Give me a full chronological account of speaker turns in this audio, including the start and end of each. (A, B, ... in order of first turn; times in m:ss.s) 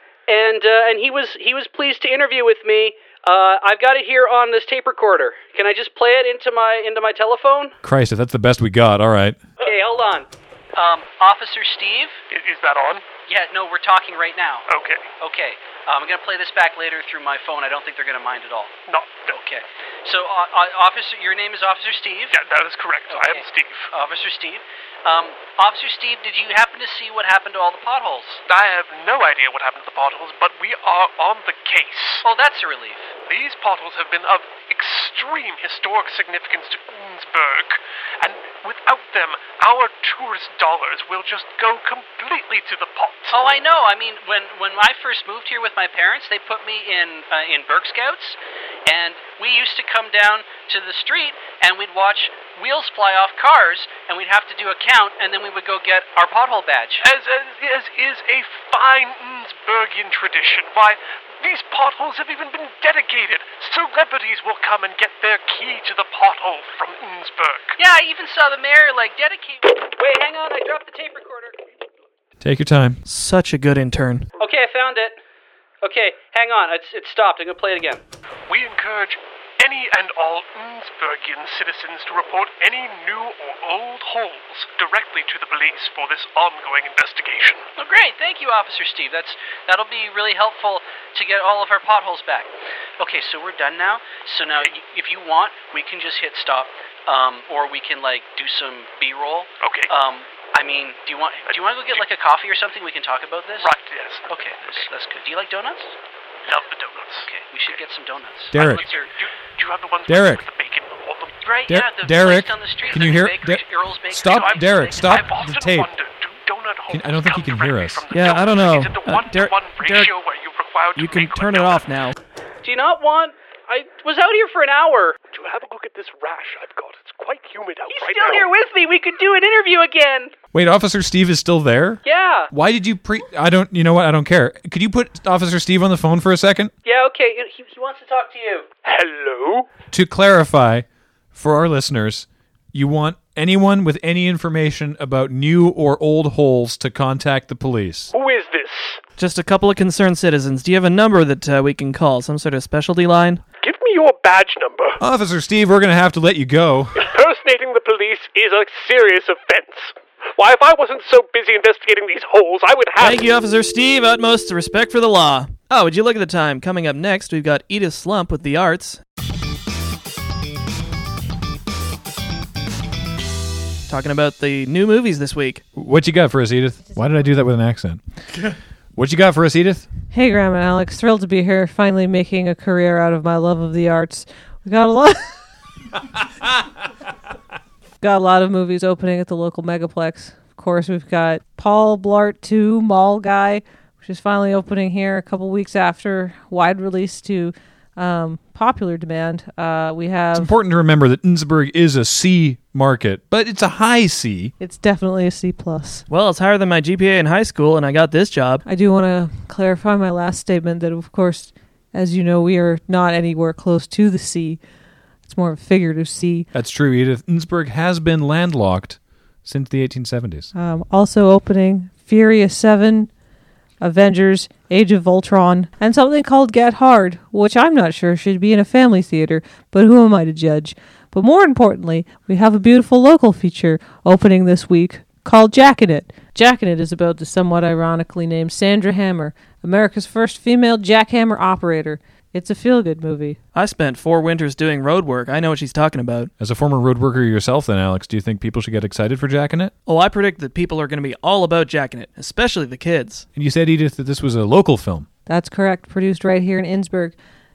0:00.3-0:07.7 A
0:07.8-0:09.4 B
0:09.6-0:12.2 A
0:12.3-0:13.1 C
0:13.3-0:14.6 A
0:14.7-0:15.1 C
0:15.2-0:22.4 A
0:18.9-0:19.4 C
0:22.3-0:23.9 C
0:23.0-0:28.4 A
0:28.5-0:32.2 C
0:32.2-0:33.1 A
0:33.2-0:43.4 C
0:43.3-0:57.0 A
0:57.0-1:07.8 C
1:07.8-1:11.6 A
1:12.4-1:13.0 B
1:13.0-1:14.3 D
1:14.4-1:15.2 A
1:15.8-1:18.0 A
1:18.5-1:27.7 C
1:27.8-1:43.7 A
1:39.6-1:39.9 C
1:41.4-1:42.0 C
1:43.6-1:44.3 C
1:44.3-1:45.9 A
1:46.4-1:47.8 C
1:47.1-1:49.1 A
1:48.5-1:48.8 B
1:48.7-1:51.4 C
1:50.1-1:50.4 B
1:51.4-1:55.4 A
1:51.7-1:55.9 B
1:54.4-2:01.9 C
1:56.9-1:58.0 B
1:58.1-2:00.1 D
2:01.0-2:02.1 D
2:02.6-2:05.2 A
2:05.3-2:08.5 C
2:07.8-2:10.3 A
2:10.5-2:16.7 B
2:12.0-2:12.5 A
2:16.8-2:18.7 A
2:18.8-2:19.7 C
2:19.9-2:28.1 B
2:28.1-2:29.0 C
2:29.2-2:33.4 D
2:33.6-2:35.0 C
2:35.0-2:37.0 B
2:37.0-2:43.3 C
2:43.0-2:49.0 D
2:53.9-2:55.6 D
2:55.7-2:59.9 B
3:00.1-3:05.2 E
3:08.0-3:20.5 E
3:20.3-3:24.5 B
3:24.6-3:26.0 E
3:26.1-3:28.6 D
3:28.6-3:34.6 E
3:35.2-3:36.5 E
3:36.5-3:40.5 B
3:40.5-3:43.1 E
3:43.8-4:03.4 E
4:03.5-4:06.3 D
4:06.4-4:09.7 B
4:09.8-4:13.2 D
4:13.3-4:15.1 B
4:15.2-4:17.1 E